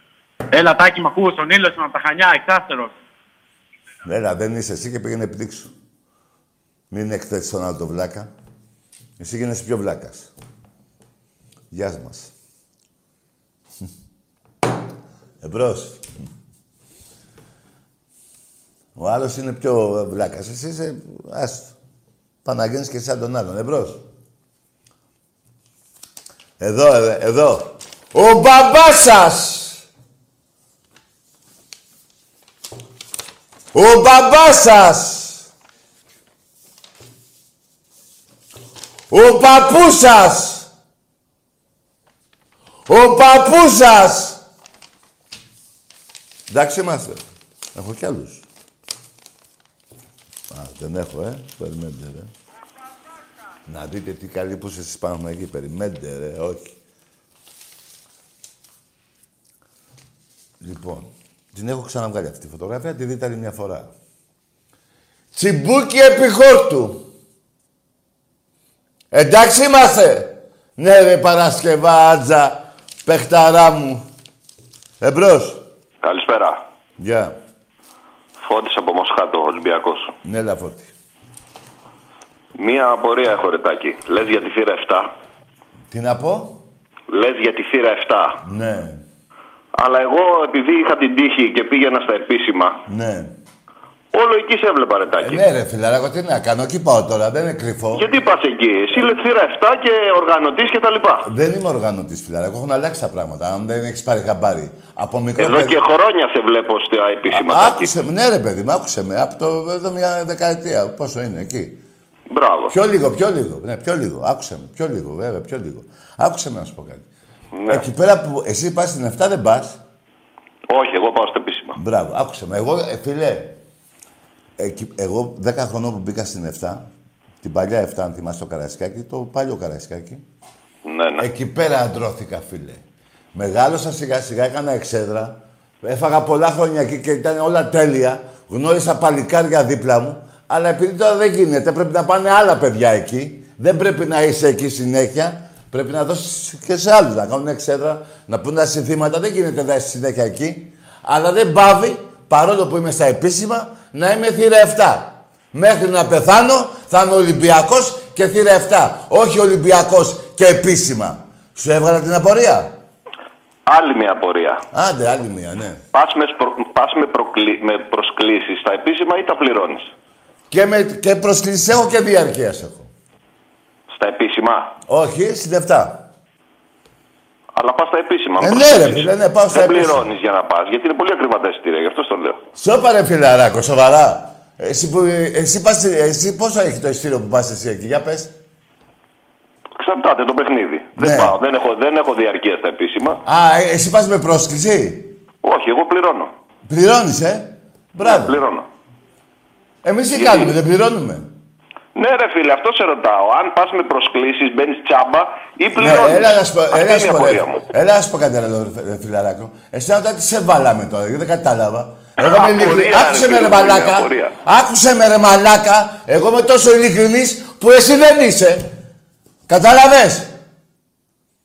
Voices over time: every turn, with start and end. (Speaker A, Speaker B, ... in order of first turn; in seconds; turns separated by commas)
Speaker A: 0.5-2.9, Speaker B: 4.0-5.7, Speaker B: 6.9-8.3, Speaker B: 9.2-10.3, Speaker B: 11.7-12.3, Speaker B: 15.4-16.0, Speaker B: 18.9-21.7, Speaker B: 22.4-24.0, Speaker B: 26.6-29.8, Speaker B: 33.7-35.5, Speaker B: 39.1-40.7, Speaker B: 42.9-44.4, Speaker B: 46.5-47.2, Speaker B: 47.7-48.4, Speaker B: 50.5-52.3, Speaker B: 53.7-56.8, Speaker B: 60.6-63.9, Speaker B: 65.3-67.0, Speaker B: 69.1-74.0, Speaker B: 75.0-75.6, Speaker C: 76.0-76.6, Speaker B: 77.0-77.3, Speaker C: 78.4-80.1, Speaker B: 80.2-80.9, Speaker C: 82.6-85.1, Speaker B: 85.9-86.6, Speaker C: 87.1-88.4, Speaker B: 88.4-89.0, Speaker C: 89.8-92.8, Speaker B: 92.9-93.3, Speaker C: 94.1-95.4, Speaker B: 95.2-98.1, Speaker C: 97.9-101.2, Speaker B: 101.2-105.8, Speaker C: 105.4-107.9, Speaker B: 107.3-111.8, Speaker C: 112.3-112.7, Speaker B: 112.7-117.0, Speaker C: 117.5-117.8, Speaker B: 117.7-119.8, Speaker C: 120.7-121.8, Speaker B: 121.8-123.6, Speaker B: 124.6-126.9, Speaker B: 127.4-130.2, Speaker C: 130.8-131.2, Speaker B: 131.2-132.8, Speaker B: 133.3-162.7, Speaker C: 163.7-164.6, Speaker B: 164.7-165.8, Speaker C: 165.9-169.9, Speaker B: 170.5-172.9, Speaker C: 173.9-174.7, Speaker B: 174.9-176.1, Speaker C: 177.6-182.4, Speaker B: 178.4-180.1, Speaker B: 182.5-188.3, Speaker C: 189.8-193.2, Speaker B: 191.0-191.4, Speaker B: 193.2-195.1, Speaker C: 195.4-196.3, Speaker B: 196.7-198.4, Speaker C: 198.0-198.7, Speaker B: 199.8-201.3, Speaker C: 200.1-200.5, Speaker C: 201.9-207.6, Speaker B: 205.8-218.7, Speaker C: 212.2-214.3, Speaker B: 219.5-220.3